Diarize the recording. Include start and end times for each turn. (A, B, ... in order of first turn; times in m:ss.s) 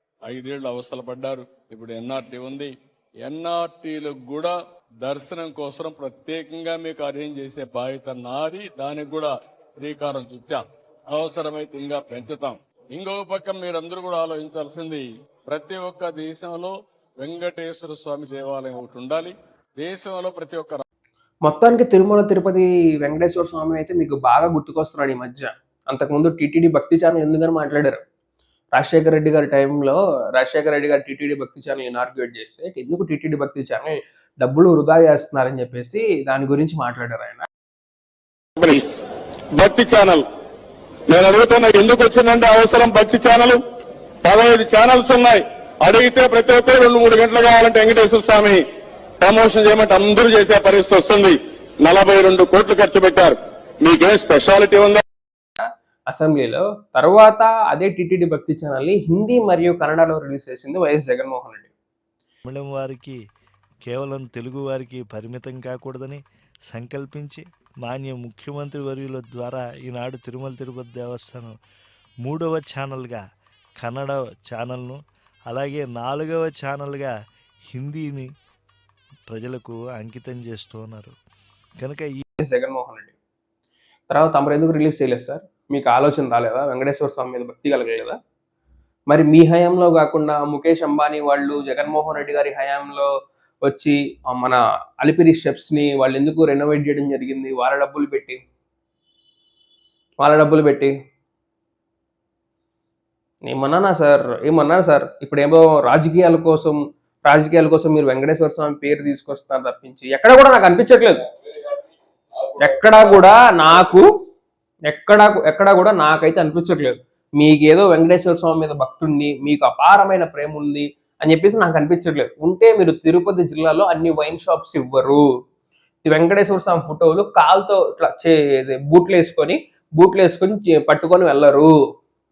0:00.2-0:20.8 A
0:21.4-0:28.0 B
0:28.7-0:37.4 B
0:38.6-0:38.9 C
0:39.6-0:40.2 C
0:41.1-0:43.6 C
0:44.2-0:48.6 C
0:49.2-0:55.0 C
0:55.6-1:01.7 B
1:02.4-1:03.2 D
1:03.8-1:11.5 D
1:12.2-1:13.2 D
1:13.8-1:17.1 D
1:17.7-1:18.3 D
1:19.3-1:21.1 D
1:21.8-1:22.2 D
1:22.4-1:23.1 B
1:24.1-1:28.2 B
1:29.1-1:33.1 B
1:33.6-1:38.4 B
1:40.2-1:40.9 B
1:43.4-1:51.2 B
1:51.3-1:51.9 A
1:52.4-1:53.2 A
1:52.6-1:54.0 B
1:54.9-2:05.2 B
2:06.0-2:11.7 B